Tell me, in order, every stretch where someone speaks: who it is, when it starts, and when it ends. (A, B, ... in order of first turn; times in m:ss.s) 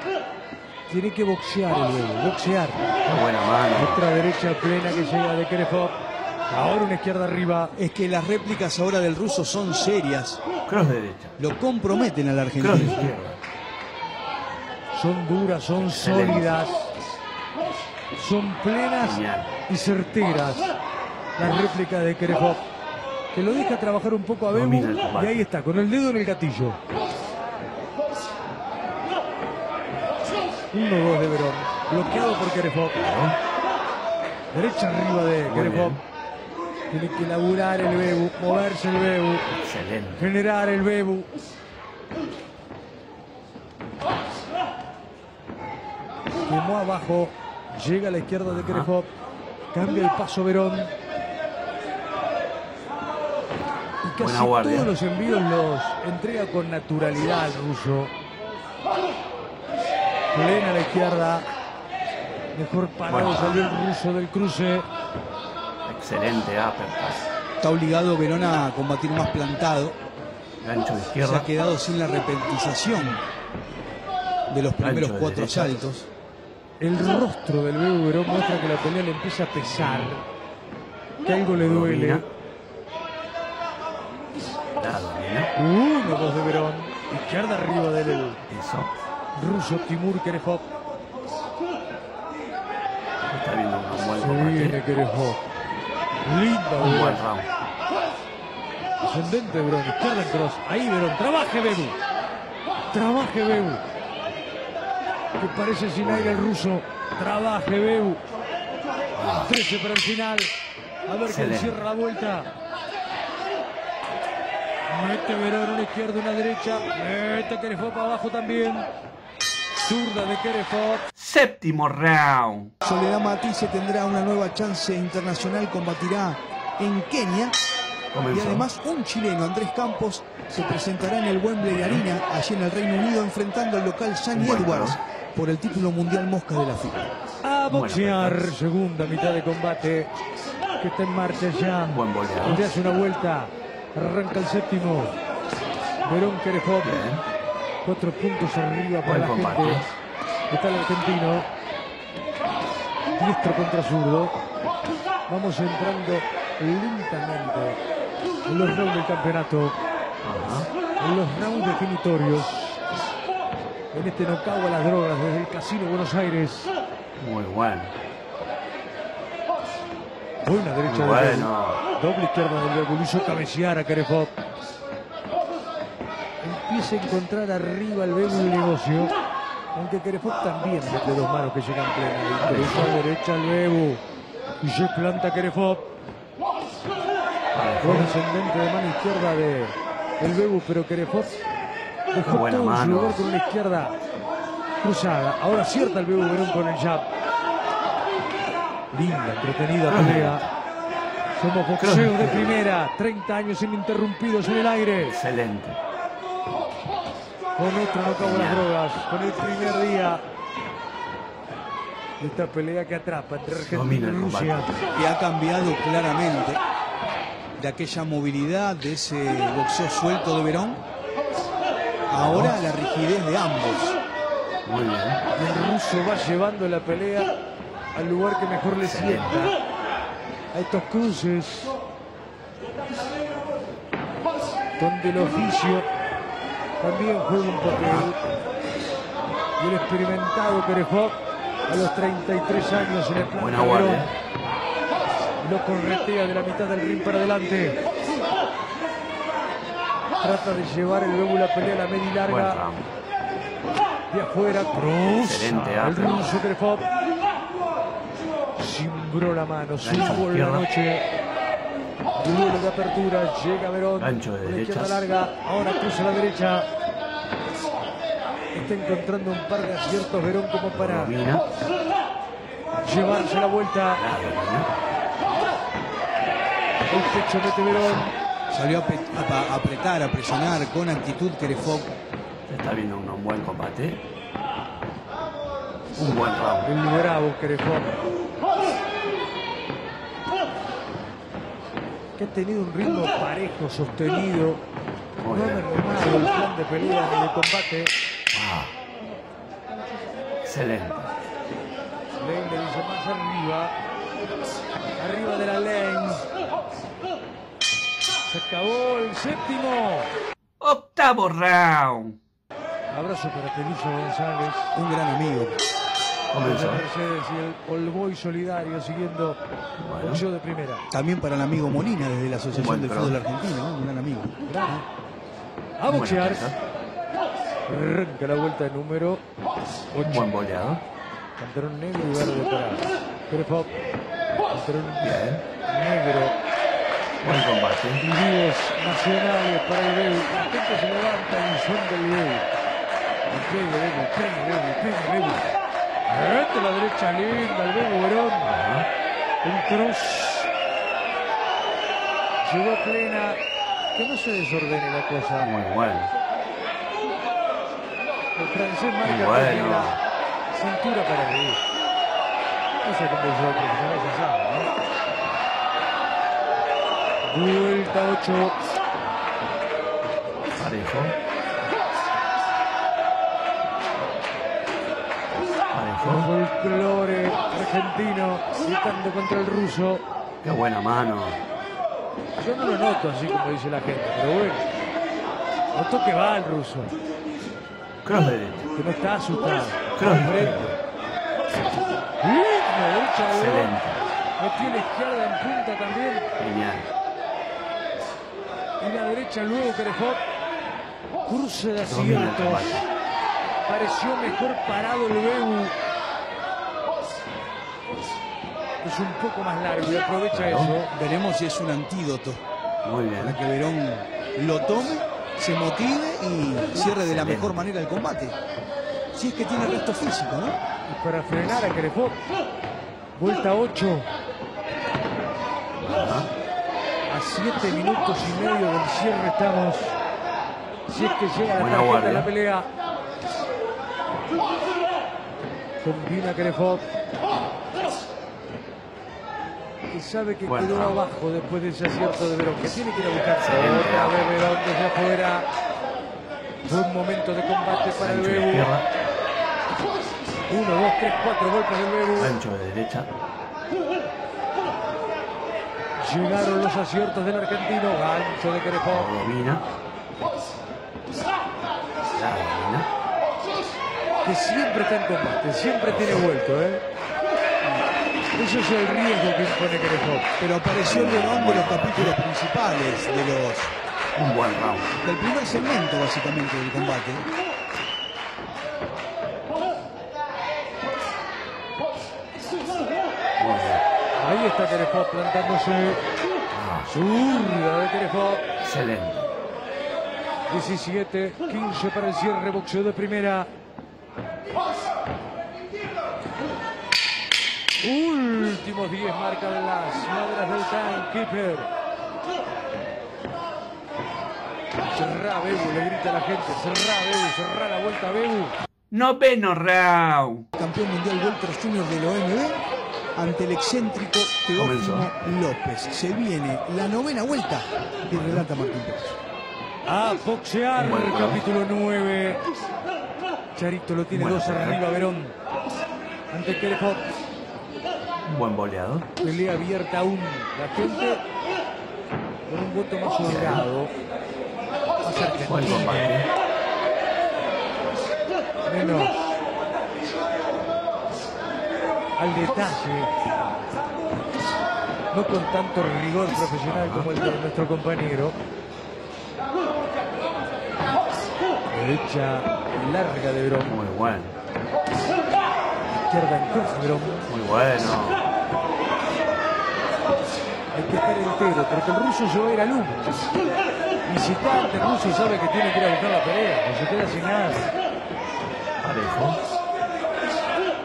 0:00.9-0:02.8 A
0:03.0-0:04.0 B
0:03.7-0:06.0 A
0:06.5-0:07.7 A
0:07.8-0:10.4 C
0:10.7-0:11.4 B
0:11.4-0:13.1 C
0:12.6-0:13.4 B
0:14.9-0:16.9 A
0:15.8-0:16.6 B
0:18.1-0:20.7 A
0:19.0-0:19.5 B
0:21.4-0:22.6 A
0:23.3-0:26.8 A
0:24.5-0:25.4 B
0:30.7-0:33.0 A
0:33.0-0:33.4 B
0:34.5-0:36.0 A
0:35.5-0:36.0 B
0:36.9-0:39.4 A
0:39.6-0:40.2 B
0:40.2-0:41.3 A
0:46.5-0:49.1 A
0:48.5-0:48.9 B
0:49.7-0:50.9 A
0:54.0-0:58.1 A
0:54.2-0:54.9 B
1:00.3-1:01.5 A
1:02.5-1:04.9 A
1:03.1-1:03.7 B
1:05.8-1:07.3 B
1:07.6-1:10.0 C
1:10.6-1:11.5 B
1:11.2-1:13.2 C
1:14.5-1:16.1 C
1:14.8-1:15.8 B
1:16.8-1:20.2 A
1:21.2-1:22.3 A
1:21.6-1:22.3 B
1:24.8-1:25.5 B
1:25.6-1:28.4 A
1:28.5-1:28.9 B
1:29.4-1:30.6 A
1:33.3-1:34.8 B
1:34.2-1:35.4 A
1:36.2-1:37.2 A
1:36.8-1:37.5 B
1:39.0-1:42.0 A
1:42.9-1:43.8 A
1:45.4-1:48.2 A
1:46.0-1:46.5 B
1:49.1-1:49.5 B
1:49.4-1:50.5 A
1:51.1-1:52.5 A
1:51.3-1:51.8 B
1:54.9-1:58.9 A
1:59.8-2:01.0 A
2:01.2-2:02.8 B
2:02.8-2:07.6 C
2:08.1-2:08.7 B
2:08.3-2:17.1 C
2:11.7-2:12.0 B
2:14.3-2:15.0 B
2:17.4-2:20.1 A
2:17.7-2:18.5 B
2:20.8-2:25.2 A
2:21.9-2:22.6 B
2:26.0-2:27.0 A
2:26.8-2:27.2 B
2:27.8-2:29.8 A
2:29.0-2:29.9 B
2:30.5-2:31.5 A
2:33.1-2:34.3 A
2:35.3-2:37.8 A
2:38.5-2:39.8 A
2:40.2-2:40.7 B
2:41.0-2:42.8 A
2:43.9-2:46.7 A
2:47.2-2:48.0 B
2:50.4-2:54.3 A
2:50.8-2:51.8 B
2:56.4-2:59.1 A
2:59.7-3:04.0 A
3:02.4-3:02.9 B
3:04.6-3:05.9 A
3:07.5-3:08.2 B
3:07.8-3:11.4 A
3:12.1-3:14.0 A
3:12.2-3:13.2 B
3:14.8-3:17.1 A
3:18.9-3:20.4 A
3:19.9-3:20.4 B
3:21.4-3:25.2 A
3:21.8-3:22.6 B
3:25.1-3:25.8 B
3:27.6-3:30.2 A
3:28.2-3:28.7 B
3:32.2-3:34.7 A
3:33.7-3:34.8 B
3:35.0-3:36.6 C
3:37.6-3:40.8 C
3:42.1-3:42.6 B
3:42.1-3:44.0 C
3:44.6-3:45.2 B
3:45.4-3:47.3 A
3:48.0-3:49.6 A
3:48.8-3:49.3 B
3:50.5-3:51.7 A
3:54.8-3:55.9 A
3:56.8-3:58.2 A
3:57.8-3:58.0 B
3:59.6-4:01.2 A
4:01.7-4:04.1 A
4:03.3-4:04.1 B
4:05.4-4:07.8 A
4:10.2-4:12.6 A
4:12.3-4:12.9 B
4:14.1-4:16.8 A
4:15.2-4:16.4 B
4:18.6-4:21.0 A
4:19.8-4:20.7 B
4:22.2-4:26.7 A
4:24.0-4:25.0 B
4:28.5-4:31.2 A
4:30.7-4:31.4 B
4:32.8-4:34.0 A
4:34.0-4:34.7 B
4:36.9-4:38.1 A
4:37.7-4:38.1 B
4:38.5-4:41.9 C
4:42.5-4:44.0 B
4:46.0-4:46.7 B
4:46.6-4:48.0 A
4:52.2-4:54.6 A
4:55.2-4:55.7 B
4:55.3-4:57.9 A
4:58.3-4:58.7 B
5:00.4-5:01.1 B
5:02.2-5:03.7 A
5:05.0-5:06.3 A
5:08.3-5:10.1 A
5:10.6-5:12.2 B
5:12.9-5:14.8 A
5:14.8-5:15.6 C
5:16.3-5:16.8 B
5:16.4-5:19.4 A
5:19.8-5:20.2 B
5:20.0-5:20.8 A
5:20.9-5:24.4 C
5:22.5-5:23.2 B
5:24.5-5:24.8 A
5:25.8-5:26.4 A
5:25.9-5:26.6 B
5:27.7-5:29.2 A
5:29.9-5:30.3 A
5:30.0-5:30.8 B
5:31.4-5:33.7 A
5:34.5-5:36.4 A
5:35.0-5:35.4 B
5:37.2-5:38.0 B
5:38.0-5:42.5 A
5:43.3-5:45.5 A
5:46.1-5:48.5 A
5:48.4-5:48.9 B
5:49.4-5:50.5 A
5:52.4-5:53.4 A
5:53.9-5:55.5 A
5:55.4-5:56.1 B
5:58.4-6:00.0 A
5:59.0-6:00.0 B
6:00.5-6:01.6 A
6:02.8-6:04.7 A
6:07.3-6:08.6 A
6:10.6-6:11.2 B
6:15.7-6:16.3 B
6:16.0-6:20.0 A
6:20.4-6:21.4 B
6:22.4-6:24.7 A
6:25.7-6:26.9 A
6:28.0-6:28.7 B
6:28.8-6:30.7 A
6:30.0-6:30.8 B
6:32.2-6:33.7 A
6:33.3-6:34.0 B
6:34.4-6:36.3 A
6:36.4-6:36.9 B
6:38.8-6:40.2 A
6:41.2-6:42.9 A
6:41.8-6:42.9 B
6:43.7-6:45.8 A
6:48.8-6:50.9 A
6:50.3-6:50.7 B
6:50.9-6:52.4 C
6:52.8-6:53.4 B
6:53.2-6:58.4 C
6:56.8-6:57.6 B
6:59.1-7:00.6 C
7:00.9-7:02.2 A
7:03.2-7:04.1 A
7:05.8-7:06.3 B
7:07.1-7:10.0 A
7:10.9-7:12.7 A
7:11.6-7:12.3 B
7:15.8-7:16.8 A
7:19.9-7:25.5 A
7:20.5-7:21.0 B
7:23.4-7:24.5 B
7:26.6-7:28.7 A
7:28.0-7:28.9 B
7:30.5-7:32.3 A
7:32.2-7:33.1 B
7:36.0-7:39.1 A
7:38.9-7:39.7 B
7:42.1-7:42.9 B
7:44.2-7:46.8 A
7:45.9-7:46.2 B
7:48.4-7:50.3 A
7:50.4-7:53.7 C
7:50.7-7:52.1 B
7:54.2-7:55.0 B
7:55.0-7:57.3 C
8:03.4-8:03.8 B
8:04.2-8:06.0 A
8:06.5-8:06.9 B
8:06.9-8:08.4 A
8:08.6-8:09.3 B
8:10.5-8:13.5 A
8:17.8-8:21.7 A
8:24.9-8:28.6 A
8:28.9-8:30.5 B
8:30.6-8:32.6 C
8:33.2-8:39.2 C
8:34.6-8:35.1 B
8:38.1-8:38.5 B
8:39.9-8:42.4 A
8:40.8-8:41.4 B
8:43.6-8:45.4 A
8:44.1-8:44.8 B
8:46.3-8:47.0 A
8:48.2-8:49.1 B
8:49.2-8:51.2 A
8:52.5-8:53.9 A
8:53.2-8:53.7 B
8:55.0-8:56.2 A
8:55.5-8:56.3 B
8:58.7-8:59.2 A
9:02.2-9:03.1 A
9:05.1-9:08.4 A
9:06.7-9:07.1 B
9:11.7-9:13.8 A
9:13.7-9:14.4 B
9:16.1-9:17.3 A
9:17.3-9:18.3 B
9:20.7-9:23.3 A
9:24.1-9:27.7 A
9:28.8-9:29.4 B